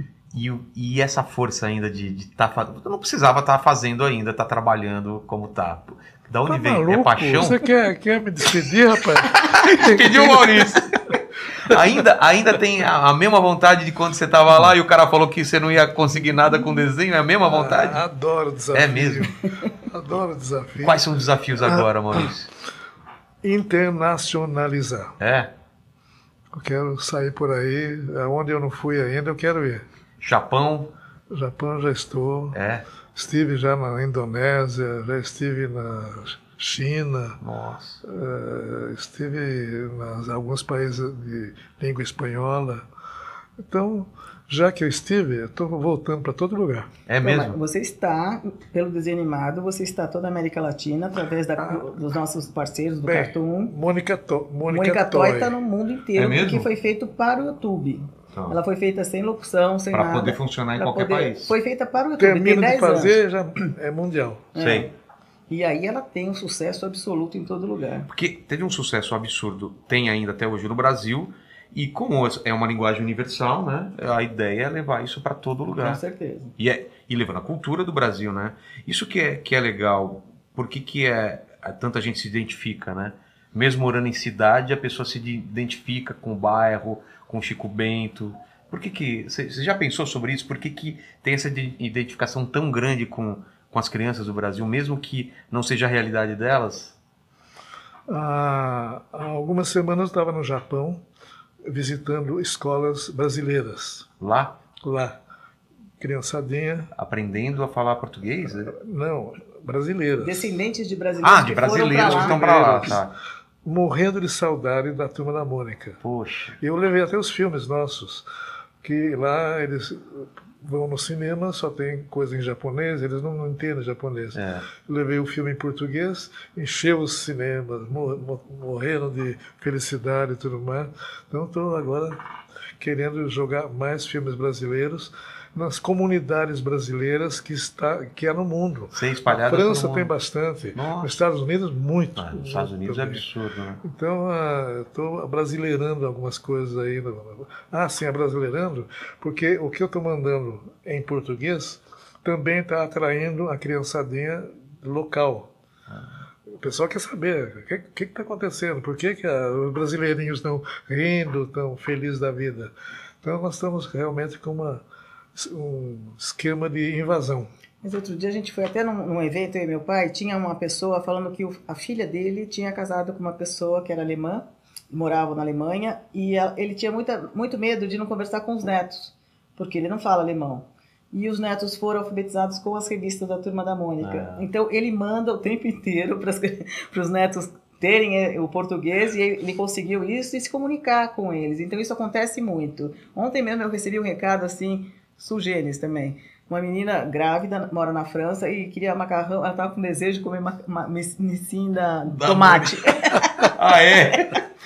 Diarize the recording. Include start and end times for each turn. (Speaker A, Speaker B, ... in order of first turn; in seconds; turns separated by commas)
Speaker A: 0.3-7.6, Speaker B: 6.5-10.9, Speaker A: 9.3-10.9, Speaker A: 11.7-18.0, Speaker B: 17.4-19.4, Speaker A: 18.7-19.3, Speaker B: 19.9-21.1, Speaker A: 20.8-22.5, Speaker B: 21.6-22.2, Speaker B: 23.4-25.1, Speaker A: 25.2-25.5, Speaker B: 26.5-29.8, Speaker A: 30.2-30.9, Speaker B: 31.3-32.6, Speaker A: 32.5-32.8, Speaker B: 33.1-37.4, Speaker A: 37.4-38.0, Speaker B: 38.0-42.8, Speaker B: 43.7-46.9, Speaker A: 47.1-47.6, Speaker C: 47.2-53.7, Speaker B: 53.0-55.6, Speaker C: 54.7-63.2, Speaker A: 56.1-56.7, Speaker A: 58.3-58.6, Speaker A: 59.9-61.5, Speaker B: 62.2-64.5, Speaker C: 64.5-64.9, Speaker A: 64.5-64.9, Speaker C: 65.5-68.1, Speaker A: 68.1-76.0, Speaker C: 75.8-76.5, Speaker A: 76.6-97.0, Speaker B: 98.1-101.0, Speaker B: 101.7-104.1, Speaker A: 104.2-104.5, Speaker B: 104.8-105.2, Speaker B: 106.0-106.9, Speaker A: 106.9-108.7, Speaker B: 108.7-110.6, Speaker C: 110.2-112.7, Speaker A: 111.2-113.1, Speaker B: 111.8-113.0, Speaker B: 113.6-116.0, Speaker A: 116.0-116.6, Speaker B: 116.6-118.2, Speaker B: 118.8-132.2, Speaker A: 124.3-124.6, Speaker B: 132.8-143.2, Speaker A: 138.9-140.1, Speaker A: 140.7-141.1, Speaker A: 142.2-143.8, Speaker B: 143.8-155.5, Speaker B: 156.6-162.7, Speaker B: 163.2-164.8, Speaker B: 165.3-167.5, Speaker C: 167.8-203.3, Speaker A: 184.0-184.4, Speaker A: 202.1-204.4